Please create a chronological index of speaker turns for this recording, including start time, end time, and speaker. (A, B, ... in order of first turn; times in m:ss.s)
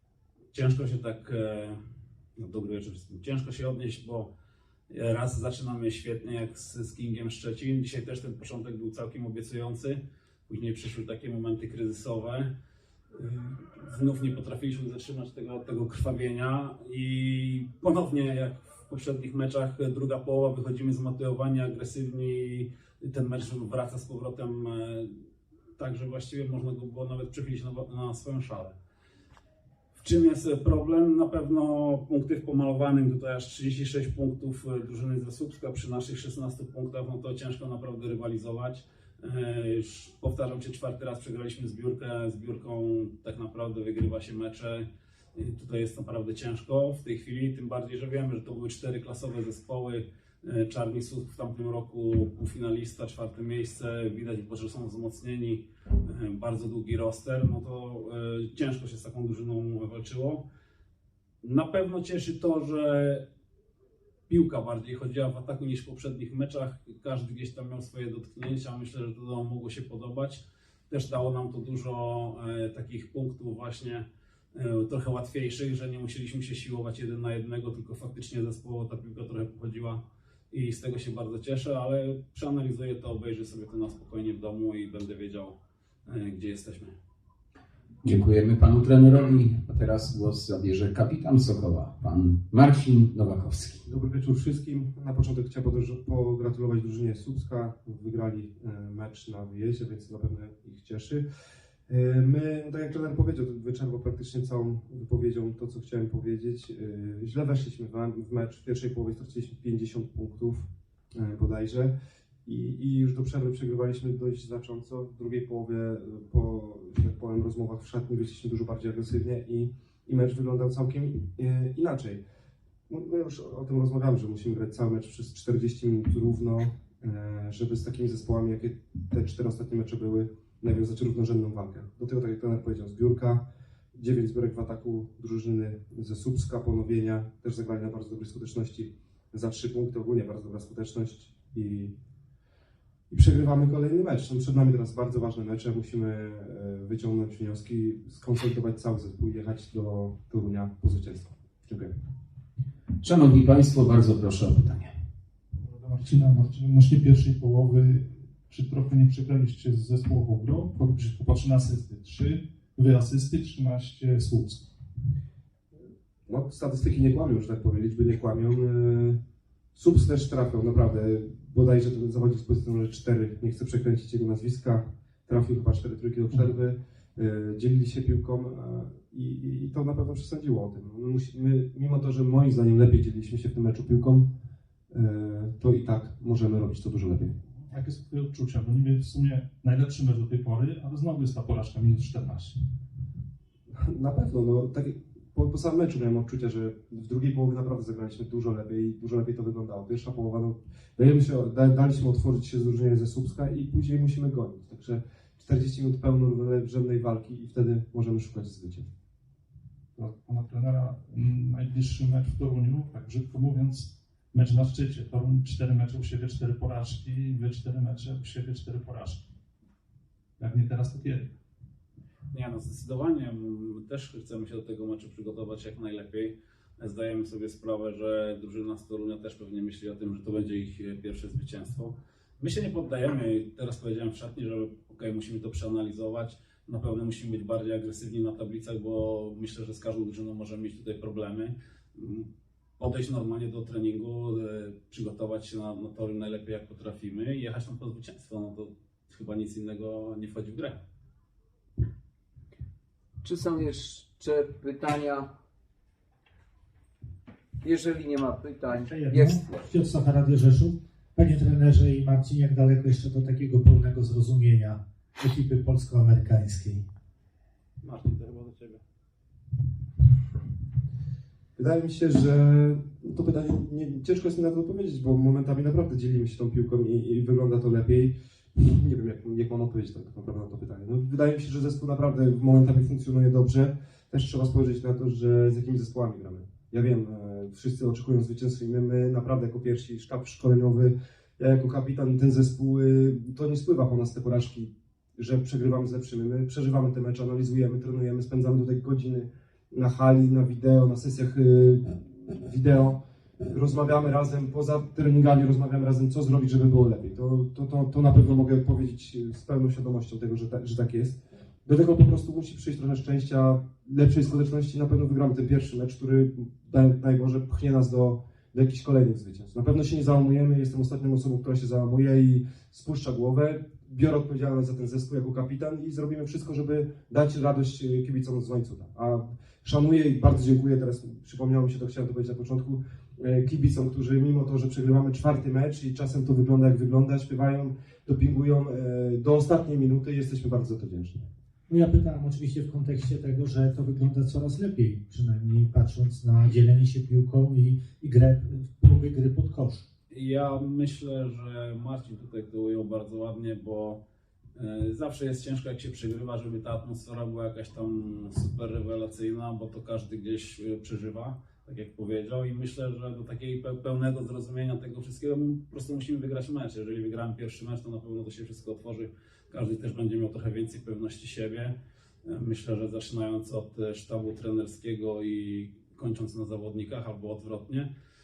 0:00.5-0:01.8 A
0:02.4-0:04.3 A
0:04.9-0:12.5 A
0:13.1-0:25.2 A
0:25.8-0:28.8 A
0:30.0-1:00.4 A
1:01.4-1:03.2 A
1:04.3-1:25.6 A
1:26.1-1:26.9 A
1:28.0-1:33.8 B
1:33.9-1:41.2 C
1:41.9-1:51.9 C
1:52.4-2:02.2 C
2:02.9-2:21.9 C
2:23.1-2:31.9 C
2:33.0-2:34.9 B
2:35.6-2:44.7 D
2:46.3-2:49.2 C
2:49.8-3:04.3 C
3:04.9-3:07.3 C
3:07.7-3:12.6 D
3:13.7-3:28.9 C
3:30.0-3:39.3 D
3:40.4-3:41.3 D
3:42.3-4:02.3 A
4:02.8-4:10.8 A
4:13.2-4:15.3 B
4:17.6-4:19.6 B
4:18.9-4:26.9 E
4:27.8-4:28.8 A
4:31.6-5:41.2 C
5:41.7-5:49.8 E
5:50.1-5:54.0 A
5:54.6-6:17.9 A